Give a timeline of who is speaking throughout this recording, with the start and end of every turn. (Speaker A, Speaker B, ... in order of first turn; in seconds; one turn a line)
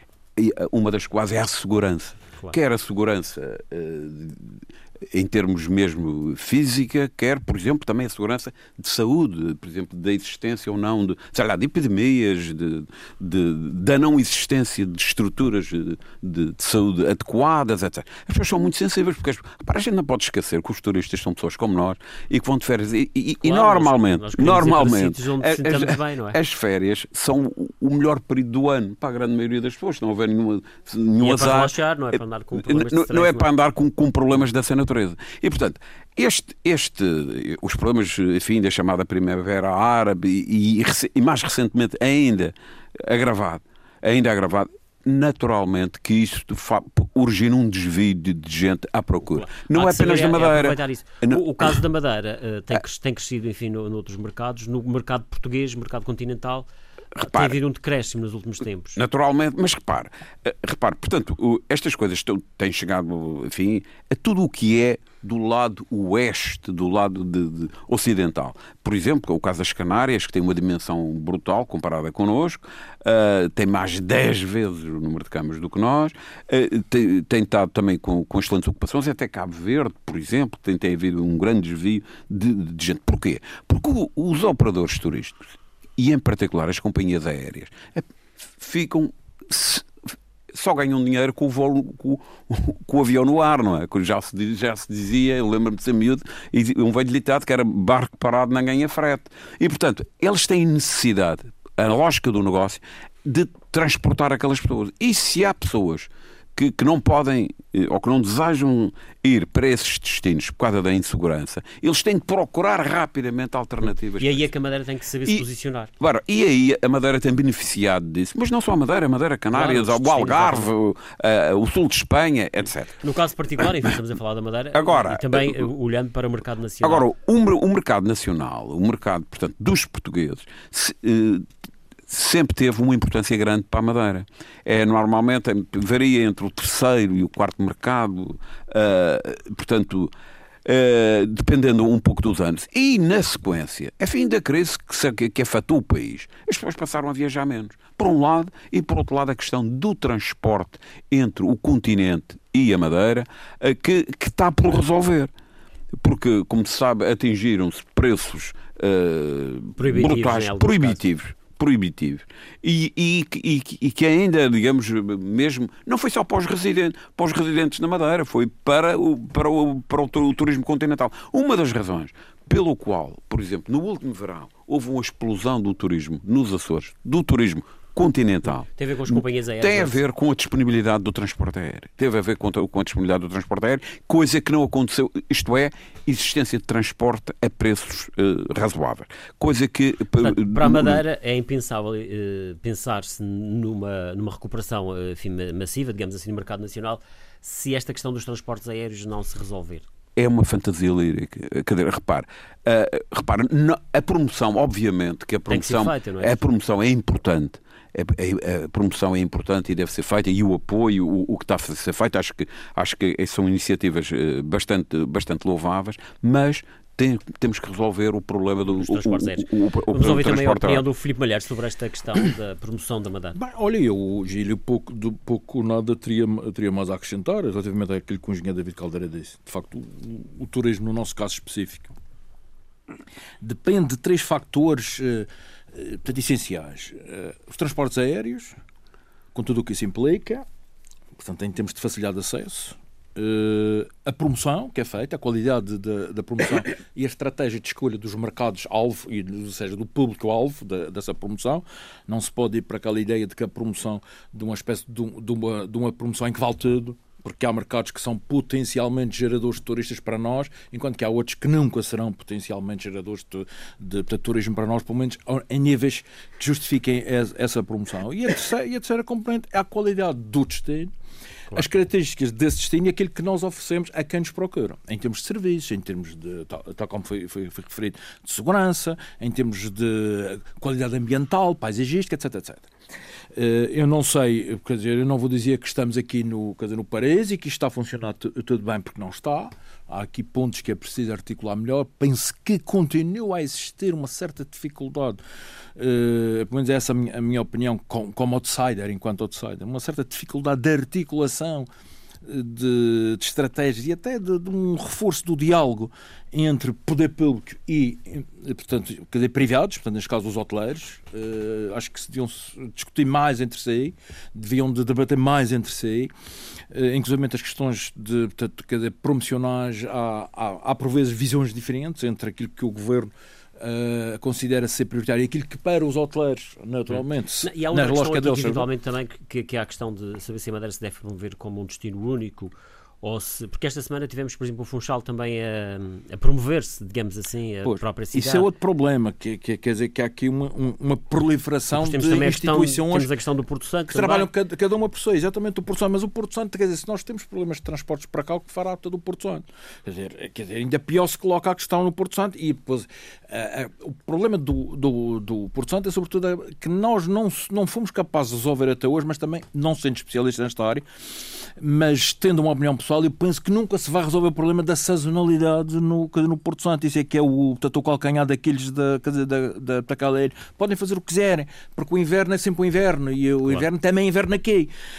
Speaker A: 0.3-51.8
Speaker B: 23.4-26.4
Speaker B: 31.2-33.5
Speaker B: 49.3-59.0
Speaker A: 57.1-57.6
Speaker A: 59.0-85.4
Speaker A: 86.0-89.9
Speaker A: 90.5-114.5
Speaker B: 113.8-115.9
Speaker A: 116.0-122.9
Speaker B: 119.5-120.7
Speaker B: 123.0-127.0
Speaker A: 124.7-125.7
Speaker A: 126.8-131.5
Speaker A: 132.1-140.1
Speaker A: 140.6-155.3
Speaker A: 156.0-191.0
Speaker B: 159.8-161.0
Speaker B: 178.7-180.0
Speaker B: 190.2-199.8
Speaker A: 200.2-220.8
Speaker B: 205.5-206.4
Speaker B: 218.7-223.4
Speaker C: 223.3-231.9
Speaker C: 233.4-238.5
Speaker C: 239.3-240.4
Speaker C: 241.2-270.9
Speaker C: 271.5-282.7
Speaker C: 283.3-295.2
Speaker C: 295.8-301.7
Speaker C: 302.2-316.1
Speaker C: 316.7-328.7
Speaker B: 326.9-338.5
Speaker C: 337.6-343.1
Speaker B: 341.8-344.3
Speaker C: 343.9-360.8
Speaker C: 361.6-374.7